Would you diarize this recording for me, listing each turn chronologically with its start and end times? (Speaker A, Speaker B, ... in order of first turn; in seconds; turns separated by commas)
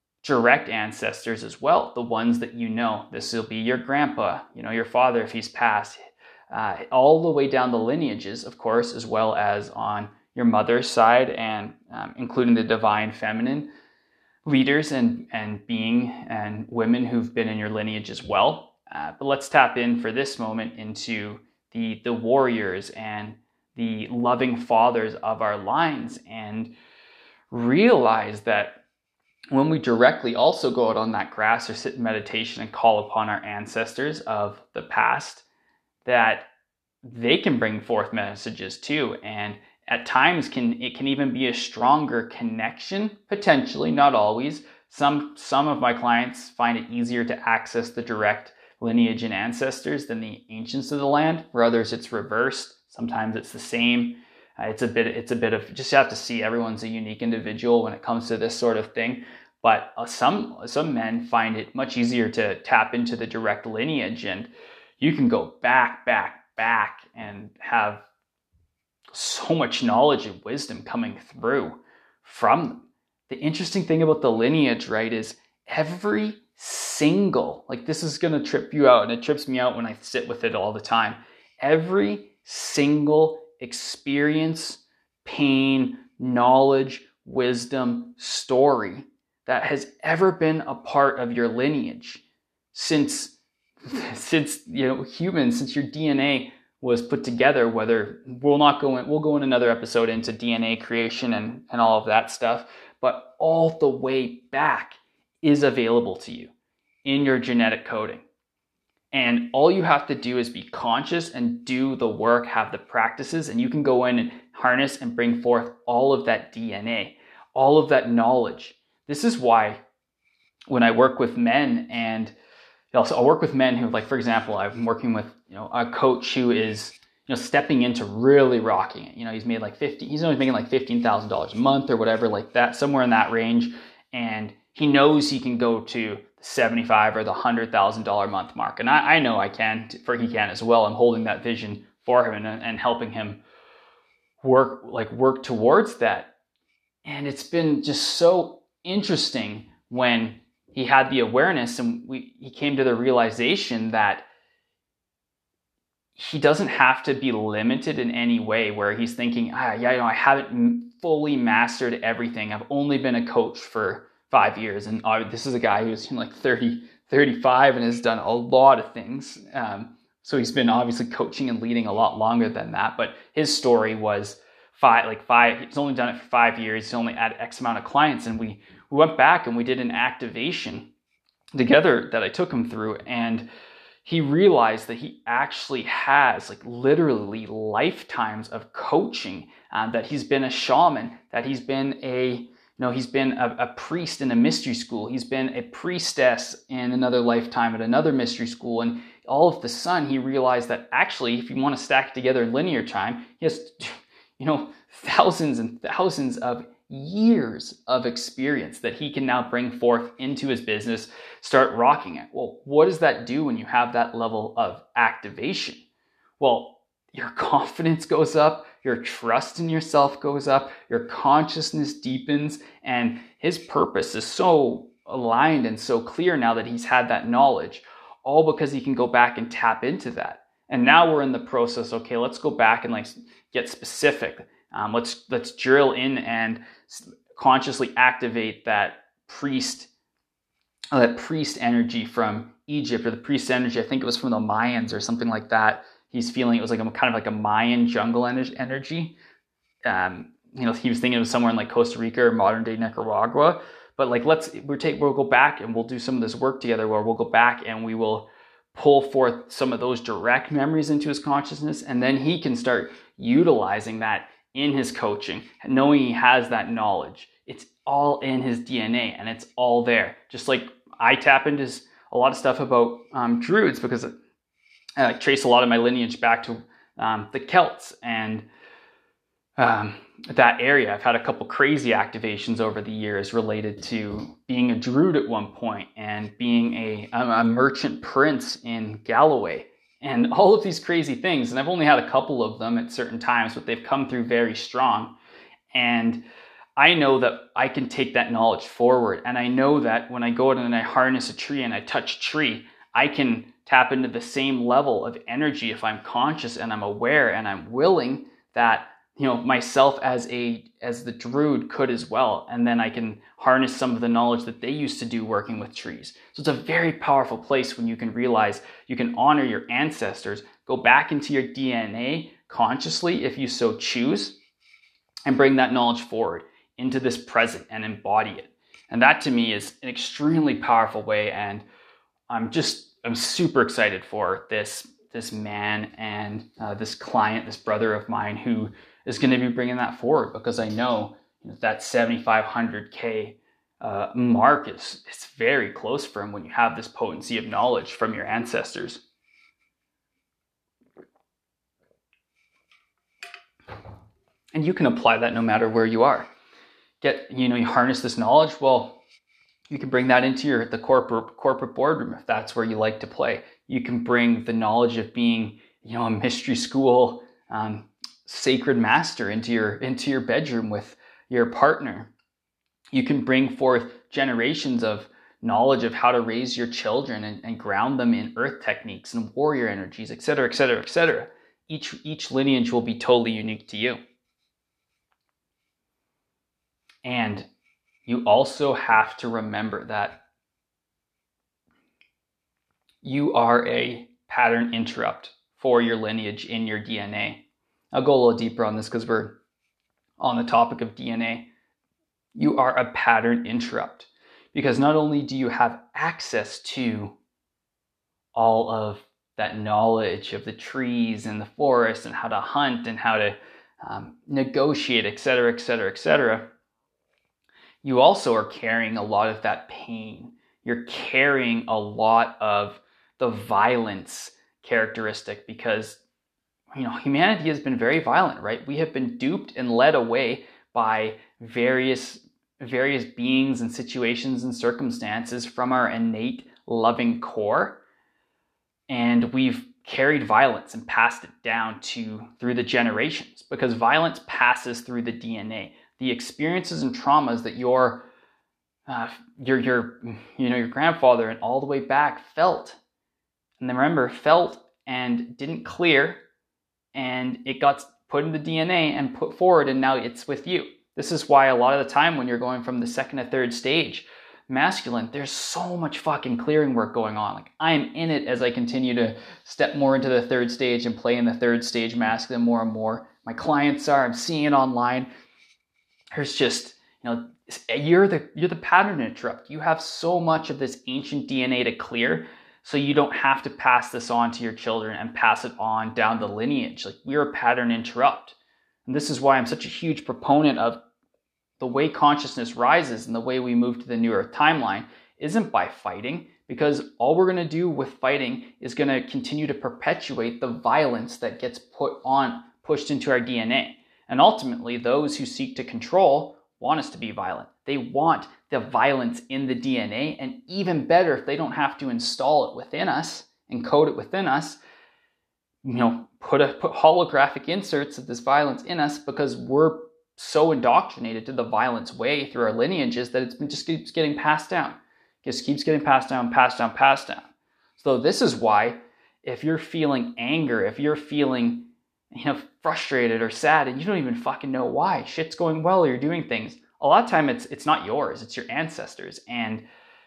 Speaker A: 0.2-13.7, Speaker A: 14.4-26.8, Speaker A: 27.5-28.8, Speaker A: 29.5-35.4, Speaker A: 36.0-36.5, Speaker A: 37.0-68.0, Speaker A: 69.1-93.3, Speaker A: 93.8-106.5, Speaker A: 107.0-108.2, Speaker A: 109.1-119.8, Speaker A: 120.7-122.3, Speaker A: 122.9-143.4, Speaker A: 144.4-146.3, Speaker A: 147.0-154.3, Speaker A: 156.2-180.9, Speaker A: 181.5-183.5, Speaker A: 184.0-215.8, Speaker A: 216.4-239.9, Speaker A: 240.9-249.2, Speaker A: 249.8-274.1, Speaker A: 275.0-278.5, Speaker A: 279.6-295.2, Speaker A: 295.7-296.2, Speaker A: 296.8-324.4, Speaker A: 325.2-331.6, Speaker A: 332.3-349.0, Speaker A: 354.5-356.3, Speaker A: 357.0-359.0, Speaker A: 359.7-372.1, Speaker A: 372.9-384.0, Speaker A: 387.0-387.5, Speaker A: 388.1-390.2, Speaker A: 393.0-399.4, Speaker A: 400.2-401.5, Speaker A: 402.3-407.1, Speaker A: 408.3-416.5, Speaker A: 417.8-426.0, Speaker A: 426.7-437.8, Speaker A: 438.9-448.1, Speaker A: 448.9-452.8, Speaker A: 453.6-456.2, Speaker A: 456.9-475.1, Speaker A: 476.1-490.8, Speaker A: 491.6-514.6, Speaker A: 515.6-527.3, Speaker A: 527.8-539.6